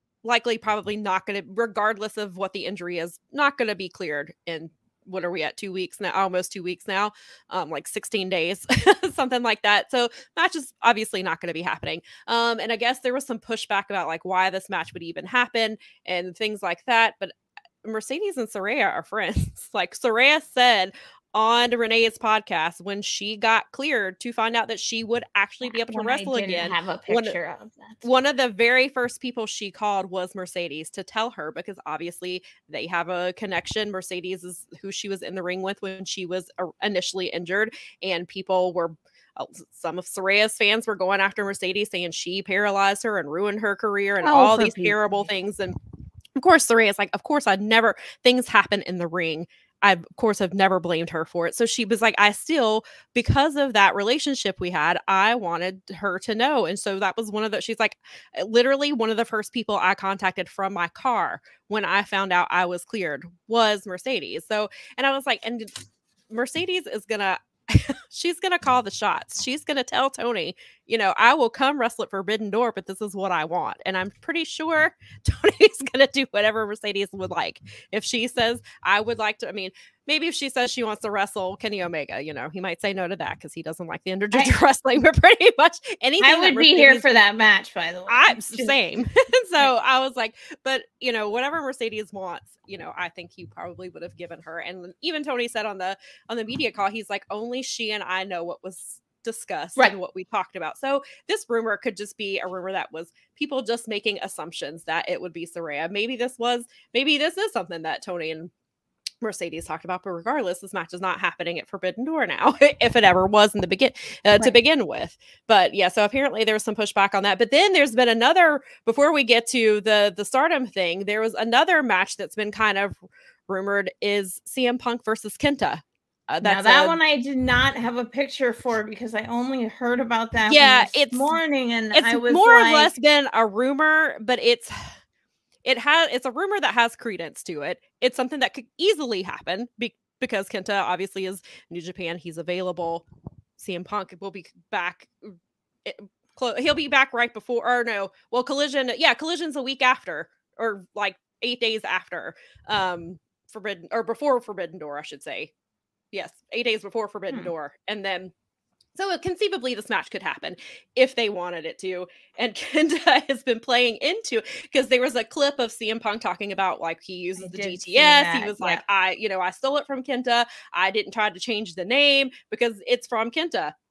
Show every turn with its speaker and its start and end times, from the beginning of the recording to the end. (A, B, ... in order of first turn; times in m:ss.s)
0:00.2-0:17.3 A
0:17.8-0:27.4 A
0:25.6-0:28.0 B
0:28.0-0:45.7 A
0:44.2-0:45.3 B
0:46.4-1:05.7 A
1:06.3-1:27.0 A
1:26.2-1:28.8 B
1:28.1-1:48.5 A
1:49.2-2:03.0 A
2:03.5-2:07.0 A
2:06.4-2:12.9 B
2:10.4-2:11.4 A
2:11.9-2:14.8 A
2:15.6-2:23.0 A
2:23.6-2:25.3 A
2:25.8-2:35.5 A
2:36.1-2:38.3 A
2:38.9-2:53.7 A
2:47.4-2:48.8 B